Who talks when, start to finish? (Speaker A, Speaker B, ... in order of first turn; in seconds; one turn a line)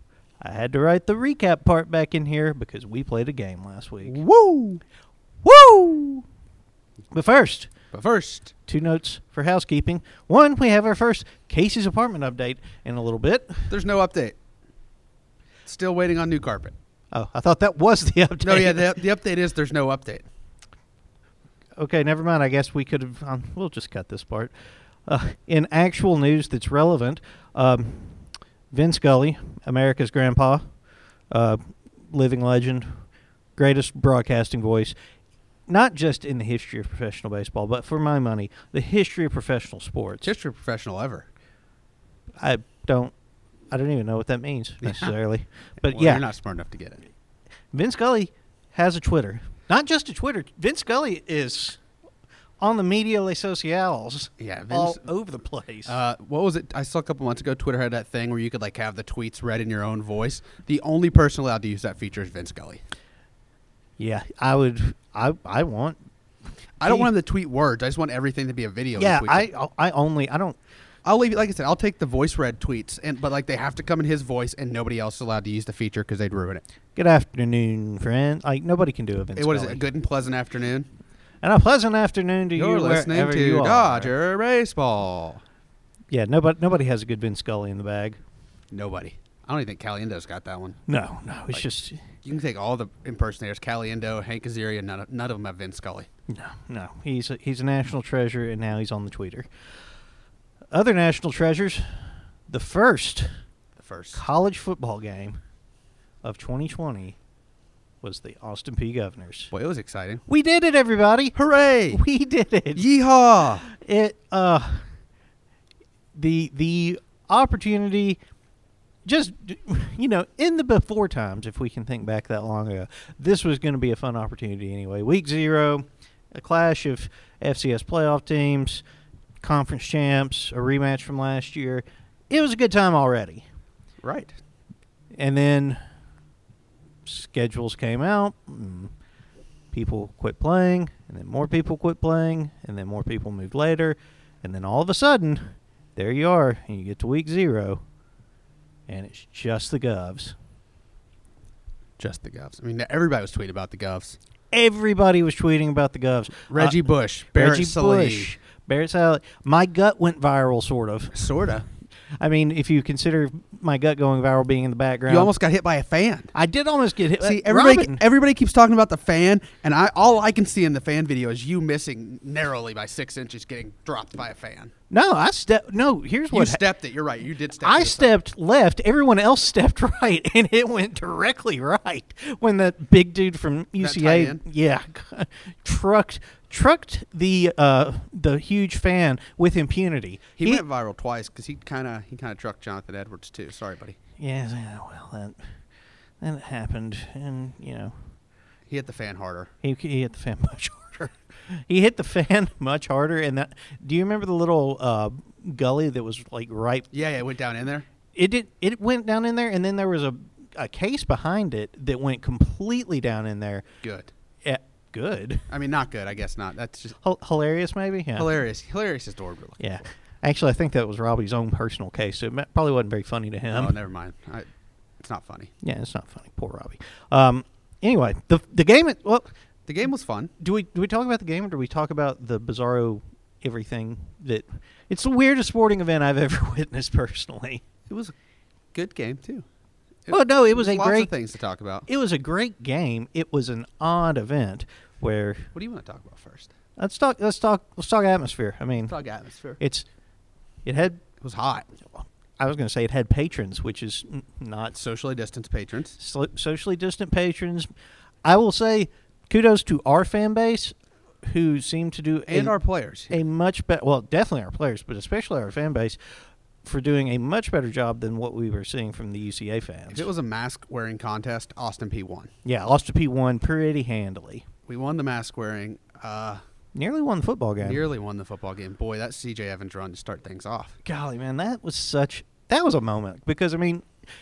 Speaker A: 0.4-4.2
Speaker B: 4.0-4.8
Speaker A: 5.4-6.2
Speaker A: 7.1-7.7
Speaker B: 7.9-8.5
Speaker A: 8.7-13.7
Speaker B: 13.7-14.4
Speaker B: 15.7-16.7
Speaker A: 17.1-18.9
Speaker B: 18.4-20.2
Speaker A: 21.8-24.5
Speaker A: 25.1-30.7
Speaker A: 31.3-33.0
Speaker A: 33.6-34.9
Speaker A: 35.7-40.3
Speaker B: 40.2-41.3
Speaker A: 42.4-43.1
Speaker A: 43.7-46.2
Speaker B: 44.8-45.1
Speaker B: 45.8-47.0
Speaker A: 47.7-51.8
Speaker A: 52.6-56.0
Speaker B: 54.4-55.1
Speaker B: 55.8-62.8
Speaker A: 64.0-66.0
Speaker B: 66.8-69.5
Speaker A: 66.8-67.1
Speaker A: 69.0-70.6
Speaker B: 71.0-76.6
Speaker A: 77.0-79.8
Speaker B: 79.4-80.9
Speaker A: 81.4-84.1
Speaker B: 82.5-85.4
Speaker A: 86.1-88.2
Speaker B: 88.7-90.8
Speaker A: 90.9-92.0
Speaker B: 92.2-96.1
Speaker A: 96.3-99.5
Speaker A: 100.7-103.3
Speaker B: 103.8-104.2
Speaker A: 104.1-105.4
Speaker A: 106.2-107.2
Speaker A: 108.0-109.5
Speaker B: 109.5-110.2
Speaker A: 110.3-111.3
Speaker B: 111.3-112.0
Speaker A: 111.9-112.8
Speaker B: 112.7-113.7
Speaker A: 113.7-114.9
Speaker A: 116.1-118.2
Speaker A: 119.0-128.8
Speaker A: 129.4-133.4
Speaker B: 134.0-134.4
Speaker A: 135.1-135.8
Speaker A: 137.1-138.9
Speaker A: 139.7-147.8
Speaker A: 148.9-150.3
Speaker B: 152.0-154.2
Speaker A: 154.5-161.3
Speaker B: 156.5-158.3
Speaker B: 161.1-161.7
Speaker A: 162.2-165.3
Speaker B: 165.1-166.3
Speaker A: 166.3-168.0
Speaker B: 167.2-174.7
Speaker A: 174.9-176.6
Speaker B: 176.3-178.1
Speaker A: 177.6-190.6
Speaker B: 183.8-184.4
Speaker B: 190.4-194.0
Speaker A: 194.2-195.5
Speaker A: 196.2-198.1
Speaker B: 198.7-199.5
Speaker A: 199.6-206.9
Speaker B: 206.9-207.8
Speaker A: 208.1-213.7
Speaker B: 213.8-214.1
Speaker A: 214.4-215.5
Speaker B: 215.5-217.0
Speaker A: 217.0-218.3
Speaker B: 218.2-219.6
Speaker A: 219.6-223.7
Speaker B: 223.5-224.5
Speaker B: 225.0-225.5
Speaker A: 225.6-229.3
Speaker B: 229.7-230.3
Speaker A: 230.4-237.6
Speaker B: 237.9-238.1
Speaker B: 238.7-239.4
Speaker B: 240.1-241.9
Speaker A: 240.1-241.1
Speaker A: 241.9-245.5
Speaker B: 245.5-246.5
Speaker A: 246.8-249.0
Speaker B: 248.9-249.6
Speaker A: 249.6-249.8
Speaker A: 250.6-251.0
Speaker B: 251.2-251.7
Speaker A: 251.9-254.8
Speaker B: 254.7-256.0
Speaker A: 256.0-257.7
Speaker A: 258.2-262.5
Speaker B: 262.3-263.2
Speaker A: 263.1-270.1
Speaker B: 269.9-272.3
Speaker A: 272.4-274.4
Speaker B: 274.7-276.4
Speaker A: 276.7-277.8
Speaker B: 277.6-280.8
Speaker A: 280.8-283.9